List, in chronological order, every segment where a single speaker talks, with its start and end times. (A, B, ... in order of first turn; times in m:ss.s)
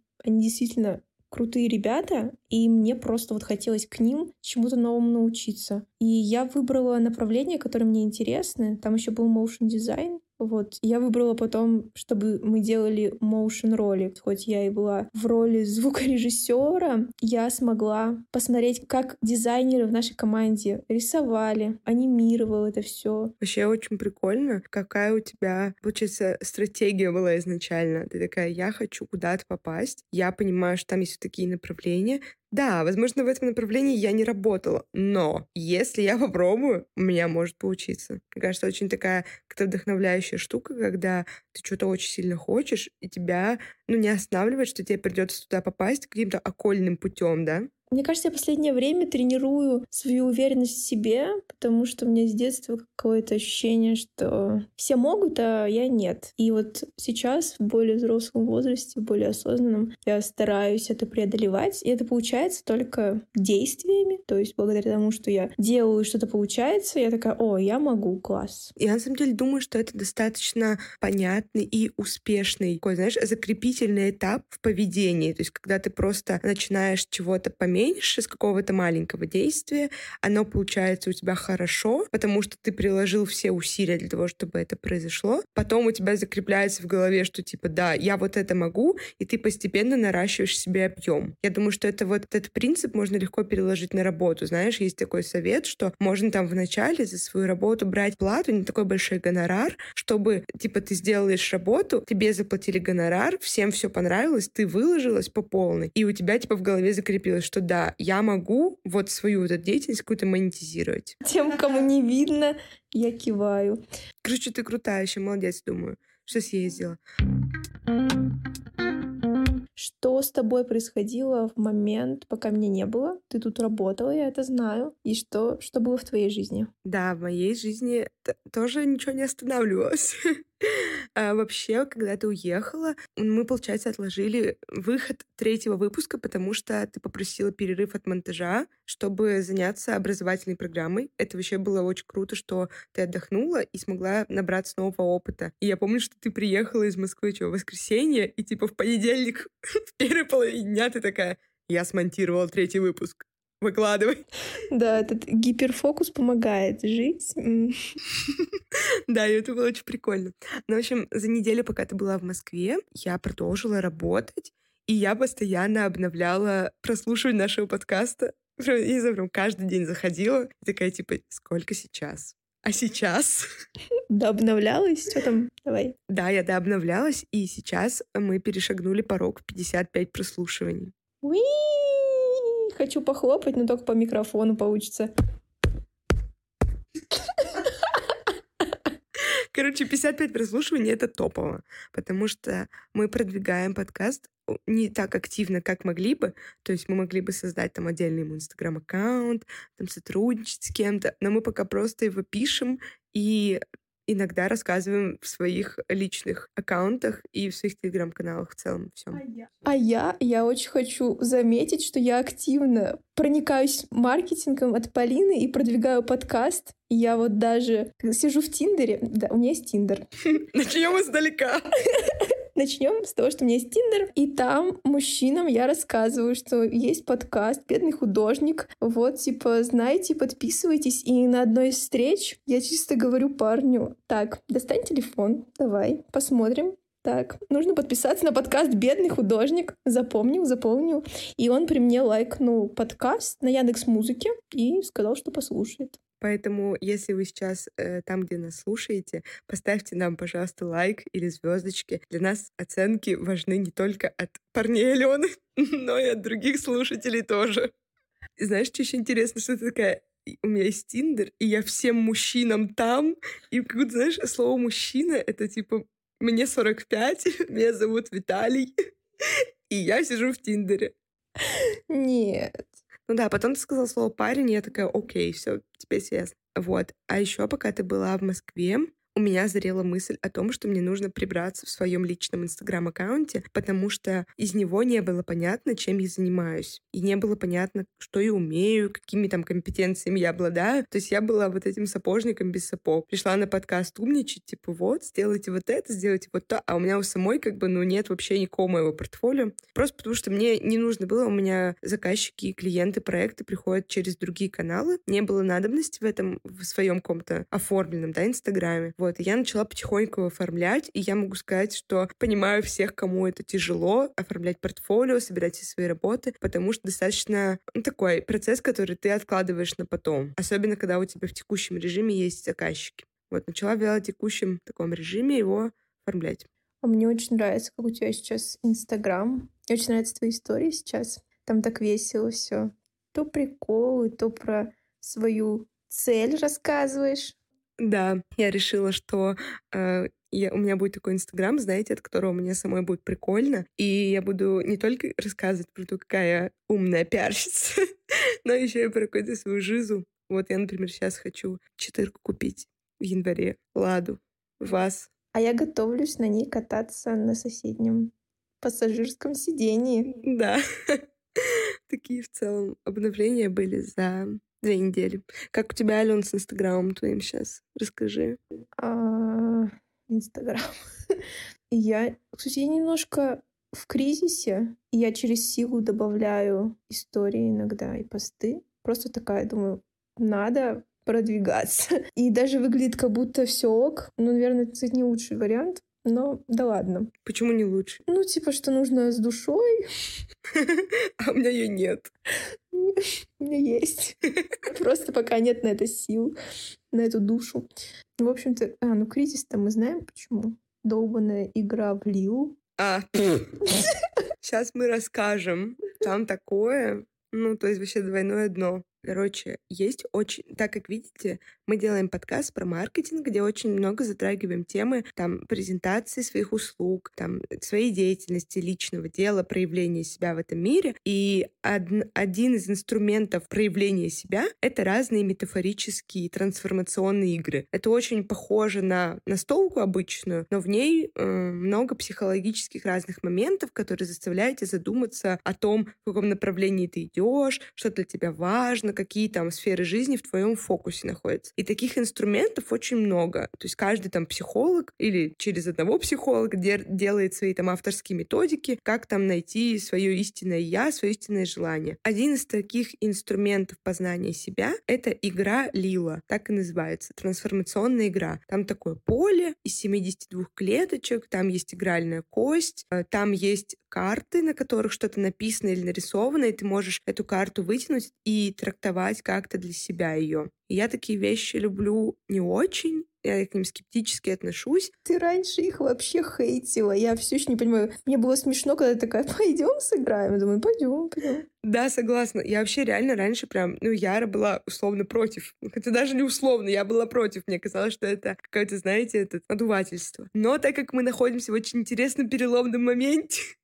0:00.2-0:23.3 A
0:23.4-0:47.7 B
0:47.9-1:08.7 A
1:08.8-1:51.2 B
1:51.2-1:53.8 A
1:54.2-1:57.0 B
1:59.8-2:06.7 A
2:06.8-2:34.2 B
2:34.7-2:37.8 A
2:39.1-2:53.4 B
2:54.1-2:56.0 A
2:56.1-3:00.9 B
3:01.2-3:05.1 A
3:07.3-3:08.0 A
3:09.5-3:29.2 B
3:29.4-3:40.0 A
3:40.3-3:41.8 B
3:42.0-4:06.0 A
4:06.2-4:17.7 B
4:18.4-4:28.7 B
4:29.7-4:30.9 B
4:31.5-4:32.6 A
4:33.1-5:26.5 B
5:26.8-5:37.4 A
5:37.8-5:47.8 B
5:48.4-5:55.1 B
5:55.3-6:00.2 A
6:00.2-6:08.4 B
6:08.8-6:11.2 A
6:11.7-6:27.1 A
6:27.2-6:28.0 B
6:28.1-6:29.9 A
6:30.5-6:32.1 B
6:32.7-6:36.4 A
6:36.9-6:37.7 A
6:38.2-6:42.6 A
6:42.8-6:43.5 B
6:44.4-7:54.9 B
7:55.0-8:01.5 A
8:01.6-8:13.4 B